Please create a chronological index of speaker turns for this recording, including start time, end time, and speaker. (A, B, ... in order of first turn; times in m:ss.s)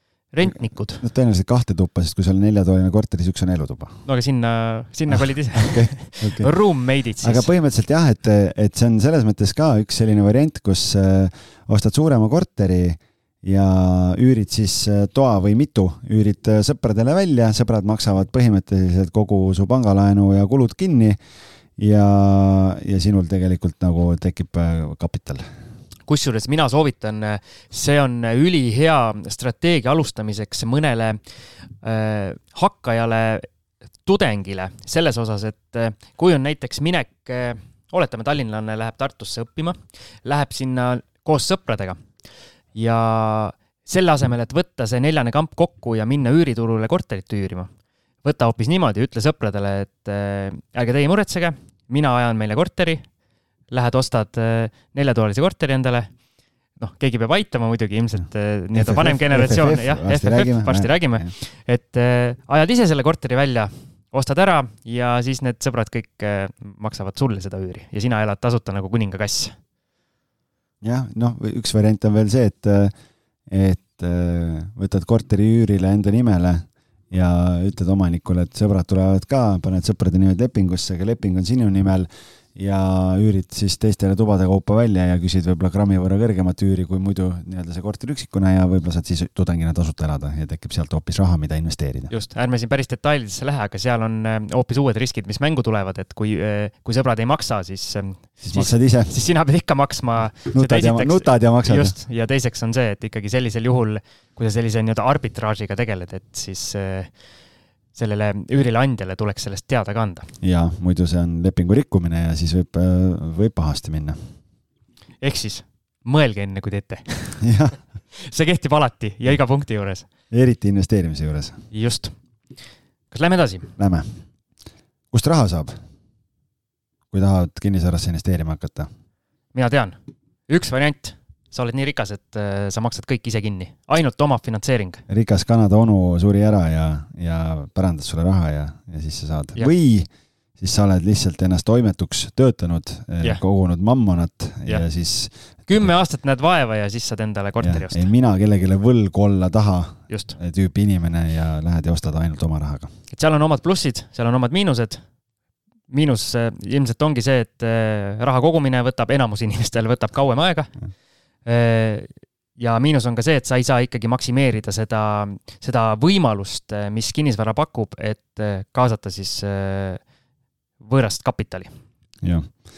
0:00.3-0:01.0 A
0:00.4-0:04.0 B
0:04.0-0:07.5 A
0:05.1-0:06.5 B
0:07.2-0:21.2 B
0:21.8-0:25.4 B
0:26.1-0:31.2 A
0:31.8-0:33.5 A
0:34.0-0:42.0 A
0:42.7-0:47.7 A
0:48.2-0:53.0 A
0:53.7-0:56.1 A
0:56.8-1:09.5 A
0:58.7-1:01.3 B
1:10.8-1:12.9 B
1:13.5-1:32.1 B
1:32.1-1:47.1 A
1:38.4-1:39.1 B
1:40.4-1:42.0 B
1:47.9-1:50.3 A
1:50.4-1:54.2 B
1:55.2-1:57.4 A
1:57.4-1:57.8 B
1:58.1-2:00.0 A
2:00.3-2:01.6 B
2:01.7-2:02.1 A
2:03.1-2:03.7 A
2:03.8-2:04.1 B
2:05.1-2:05.8 B
2:07.1-2:08.9 B
2:09.5-2:10.0 A
2:10.5-2:15.0 A
2:15.1-2:25.9 B
2:25.7-2:28.1 A
2:27.6-2:32.9 B
2:30.1-2:30.4 A
2:33.1-2:35.0 A
2:35.9-2:40.7 A
2:41.4-2:50.0 A
2:50.8-2:51.7 A
2:52.2-2:52.5 B